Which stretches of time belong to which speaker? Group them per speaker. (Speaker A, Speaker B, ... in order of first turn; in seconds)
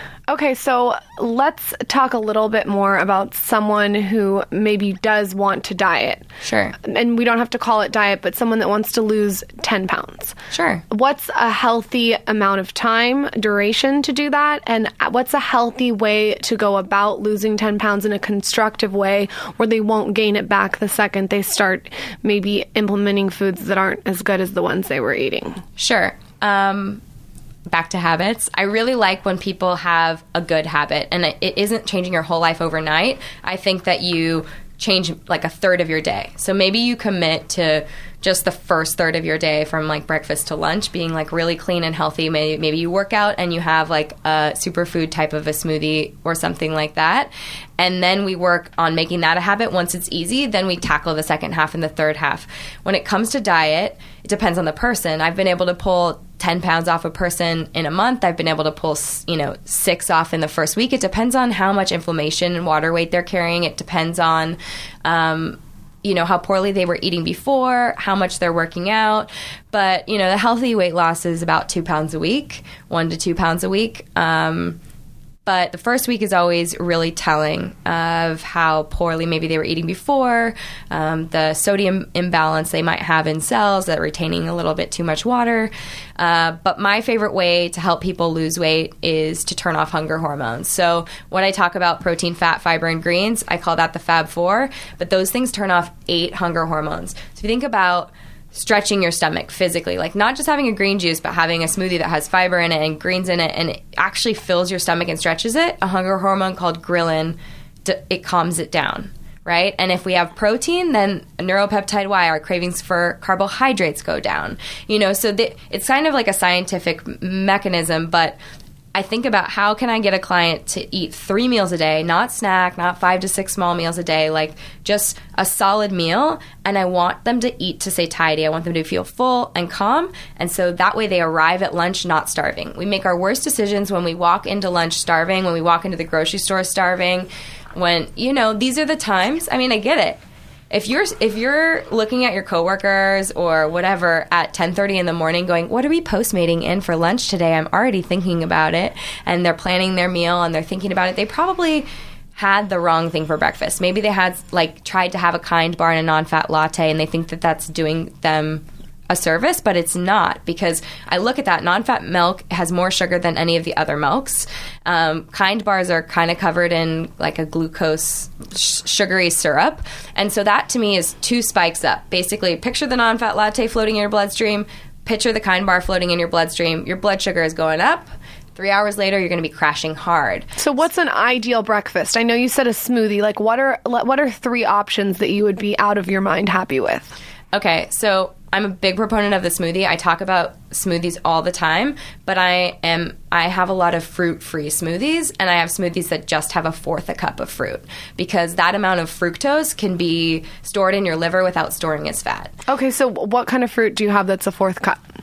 Speaker A: 0.3-6.2, 6.8-10.3, 10.9-25.6, 180.6-187.2, 202.7-205.0
Speaker B: 6.4-6.8, 10.5-10.8, 25.8-27.0, 27.7-74.8, 75.5-118.4, 119.0-140.2, 140.7-180.5, 187.5-202.5